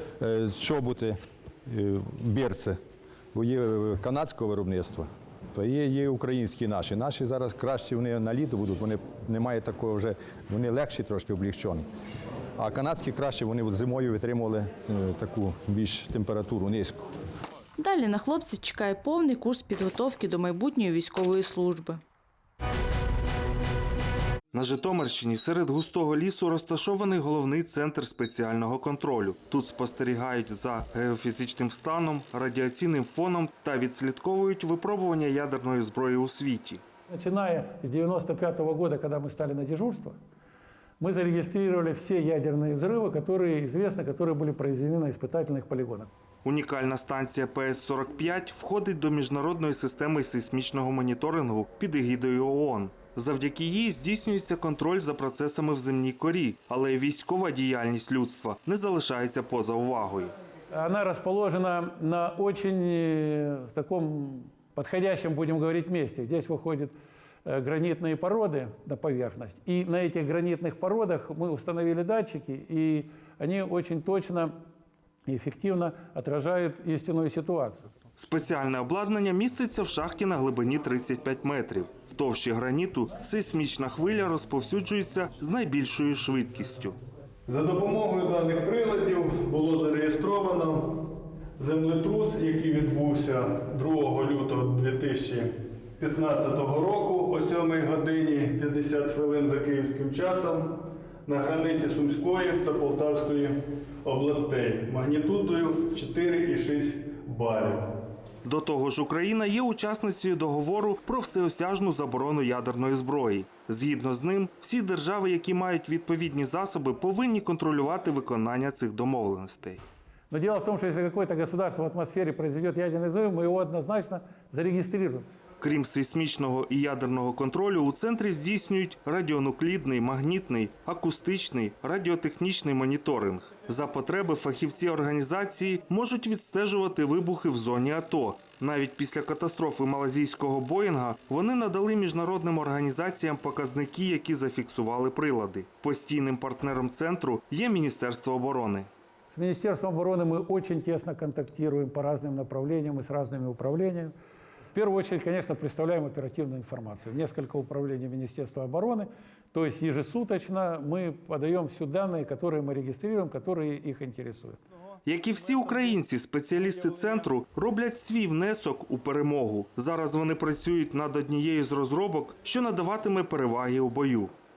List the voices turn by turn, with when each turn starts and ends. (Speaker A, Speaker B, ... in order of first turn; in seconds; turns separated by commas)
Speaker A: 0.2-2.8, Speaker A: 3.3-11.8, Speaker A: 12.6-17.1, Speaker B: 17.8-22.0, Speaker C: 24.5-36.8, Speaker D: 37.1-40.1, Speaker D: 41.0-46.1, Speaker C: 46.4-60.3, Speaker D: 60.7-66.9, Speaker D: 67.4-74.5, Speaker D: 75.3-77.9, Speaker C: 78.2-87.0, Speaker E: 87.5-90.9, Speaker E: 91.6-95.5, Speaker E: 96.0-100.7, Speaker E: 101.3-103.5, Speaker E: 104.0-107.8, Speaker C: 108.4-119.8, Speaker D: 120.3-125.3, Speaker C: 125.6-148.9, Speaker D: 149.3-154.1, Speaker D: 154.7-164.6, Speaker C: 165.1-174.3